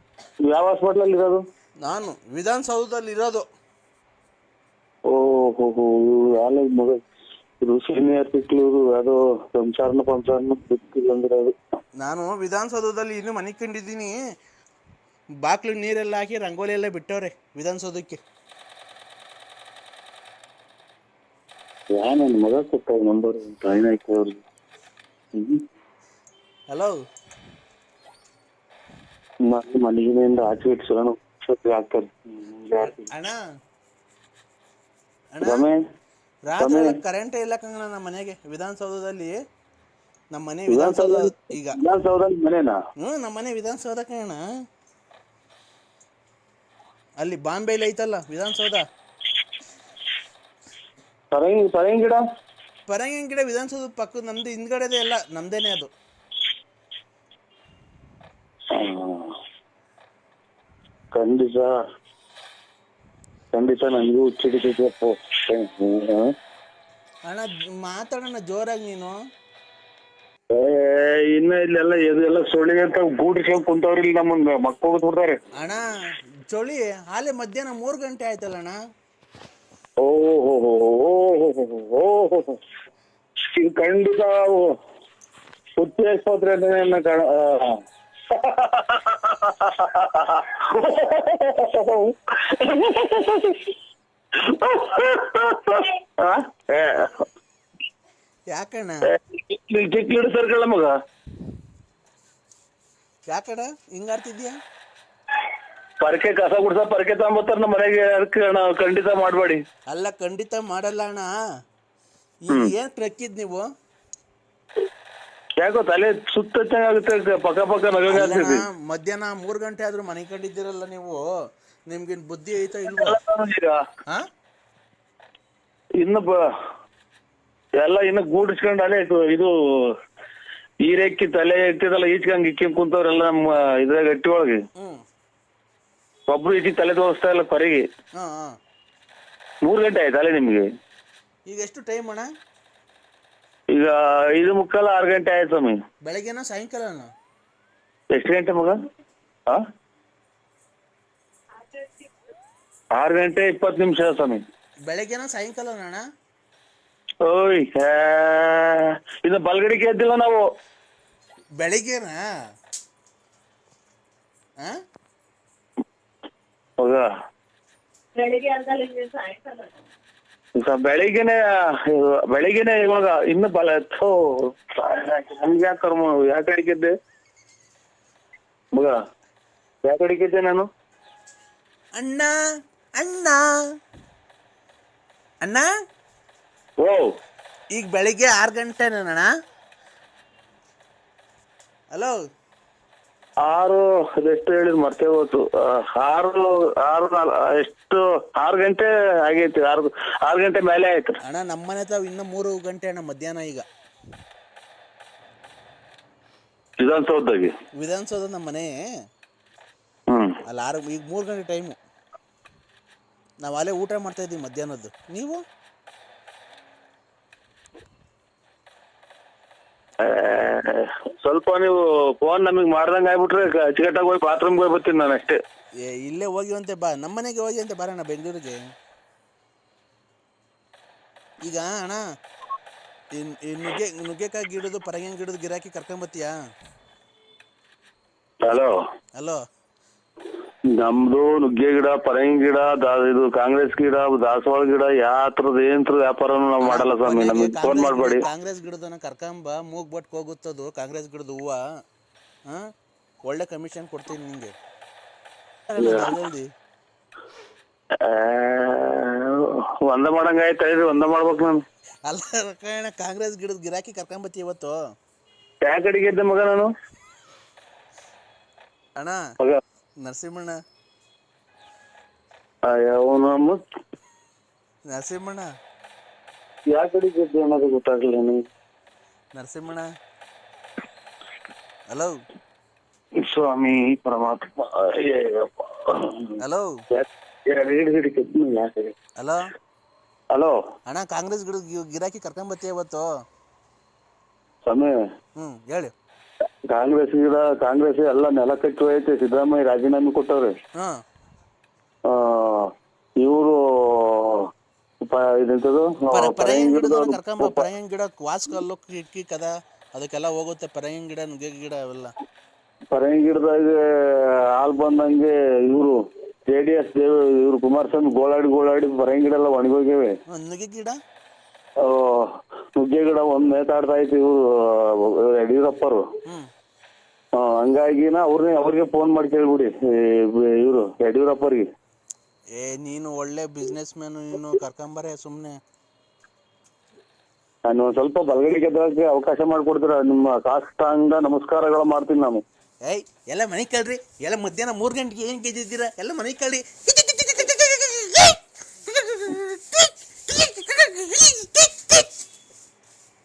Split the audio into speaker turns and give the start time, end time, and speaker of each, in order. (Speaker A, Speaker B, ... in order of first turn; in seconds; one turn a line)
Speaker A: 0.5-1.4
Speaker B: 1.8-3.4
Speaker A: 5.1-7.0
Speaker A: 7.6-11.5
Speaker B: 12.0-14.2
Speaker B: 15.4-18.2
Speaker A: 21.9-24.4
Speaker A: 25.3-25.6
Speaker B: 26.7-26.9
Speaker A: 29.4-33.1
Speaker B: 32.8-33.4
Speaker B: 35.3-35.7
Speaker A: 35.4-35.8
Speaker B: 36.5-39.4
Speaker A: 36.6-37.0
Speaker B: 40.3-41.8
Speaker A: 40.7-42.7
Speaker B: 43.0-44.4
Speaker B: 47.2-48.8
Speaker A: 51.3-52.2
Speaker B: 52.9-55.9
Speaker A: 58.7-59.4
Speaker A: 61.1-61.7
Speaker A: 63.5-66.2
Speaker B: 67.3-69.2
Speaker A: 70.5-75.4
Speaker B: 75.6-75.8
Speaker B: 76.5-78.8
Speaker A: 80.0-82.6
Speaker A: 83.4-84.7
Speaker A: 85.8-87.7
Speaker A: 88.3-93.7
Speaker A: 94.3-97.2
Speaker B: 98.5-99.0
Speaker A: 99.1-100.9
Speaker B: 103.2-104.6
Speaker A: 106.0-109.6
Speaker B: 109.9-111.3
Speaker B: 112.4-113.7
Speaker A: 115.6-118.7
Speaker B: 118.1-121.2
Speaker B: 121.9-123.2
Speaker A: 122.8-123.8
Speaker A: 126.0-126.4
Speaker A: 127.8-129.5
Speaker A: 130.8-134.6
Speaker B: 134.8-135.0
Speaker A: 136.3-137.8
Speaker B: 138.2-138.6
Speaker A: 139.6-140.6
Speaker B: 141.5-142.3
Speaker A: 143.7-145.8
Speaker B: 146.0-147.1
Speaker A: 148.1-148.7
Speaker A: 152.9-154.4
Speaker B: 154.9-156.0
Speaker A: 157.2-160.4
Speaker B: 161.6-162.2
Speaker A: 166.8-167.0
Speaker A: 170.6-176.9
Speaker A: 179.8-180.6
Speaker B: 181.9-182.3
Speaker B: 183.0-183.4
Speaker B: 187.7-189.3
Speaker A: 193.4-201.1
Speaker B: 201.2-203.7
Speaker A: 206.8-207.5
Speaker B: 207.8-208.7
Speaker A: 210.1-210.4
Speaker B: 210.4-211.8
Speaker B: 213.4-215.4
Speaker A: 220.0-225.4
Speaker B: 225.8-228.6
Speaker B: 231.4-232.0
Speaker B: 233.1-236.3
Speaker A: 238.4-238.7
Speaker A: 240.7-248.2
Speaker B: 246.6-251.6
Speaker B: 253.2-254.5
Speaker B: 255.7-256.5
Speaker A: 255.8-256.2
Speaker A: 258.0-261.6
Speaker B: 262.1-264.8
Speaker A: 265.6-266.7
Speaker B: 269.0-269.2
Speaker B: 270.0-270.6
Speaker A: 272.6-273.6
Speaker B: 274.9-275.5
Speaker A: 276.7-278.4
Speaker B: 279.3-279.9
Speaker B: 281.9-282.1
Speaker A: 283.2-286.4
Speaker B: 286.4-286.7
Speaker A: 286.9-288.9
Speaker B: 289.2-289.5
Speaker B: 290.9-293.1
Speaker A: 294.6-294.9
Speaker B: 295.4-295.9
Speaker A: 296.7-300.5
Speaker A: 302.1-302.7
Speaker A: 303.2-304.5
Speaker A: 305.0-307.7
Speaker B: 306.1-312.1
Speaker A: 312.9-315.9
Speaker A: 316.5-320.1
Speaker B: 320.3-321.0
Speaker A: 321.8-326.0
Speaker A: 327.3-331.6
Speaker B: 332.5-335.6
Speaker A: 337.6-342.4
Speaker B: 342.8-352.1